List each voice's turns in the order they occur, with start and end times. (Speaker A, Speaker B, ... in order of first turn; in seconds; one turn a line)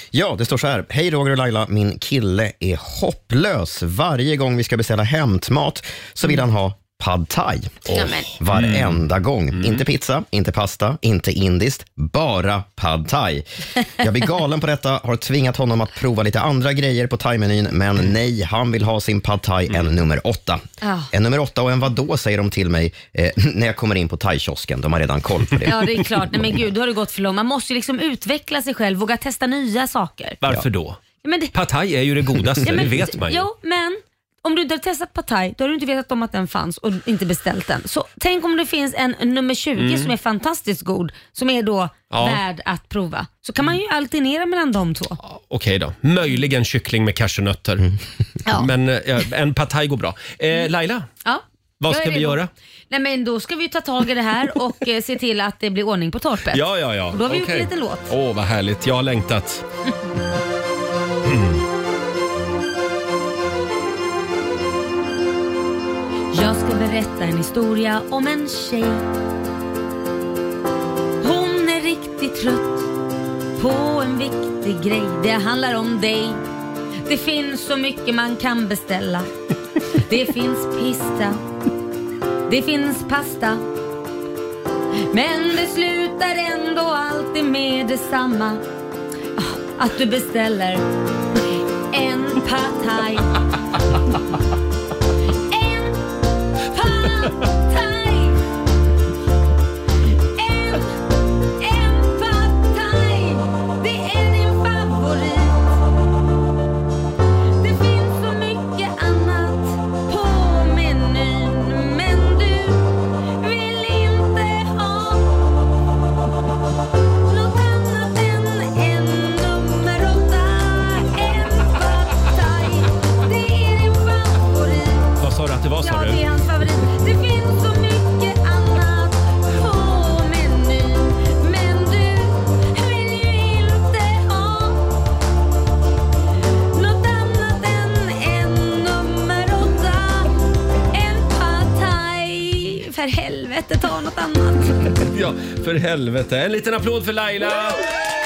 Speaker A: 0.1-26.0
Speaker B: 7.9-8.3
Speaker C: 8.0-8.9
Speaker C: 9.6-9.8
Speaker B: 20.8-21.1
Speaker B: 25.6-30.4
Speaker C: 30.4-31.0
Speaker B: 31.2-31.5
Speaker C: 31.5-33.5
Speaker B: 32.6-45.2
Speaker C: 39.8-40.1
Speaker C: 42.1-42.4
Speaker C: 45.2-47.9
Speaker C: 48.5-51.1
Speaker B: 51.2-52.4
Speaker C: 51.8-52.5
Speaker B: 52.9-58.1
Speaker C: 56.5-59.6
Speaker C: 61.2-61.6
Speaker B: 66.3-69.0
Speaker B: 71.2-72.9
Speaker B: 73.6-76.4
Speaker B: 77.0-79.3
Speaker B: 79.9-81.4
Speaker B: 82.5-83.6
Speaker B: 85.1-88.6
Speaker B: 89.4-90.8
Speaker B: 91.9-93.4
Speaker B: 95.5-96.0
Speaker B: 96.7-98.4
Speaker B: 100.3-100.9
Speaker B: 101.6-105.8
Speaker B: 107.6-115.3
Speaker B: 117.2-125.1
Speaker C: 125.2-126.2
Speaker B: 125.8-134.8
Speaker B: 136.7-140.3
Speaker B: 140.9-144.9
Speaker C: 145.0-147.8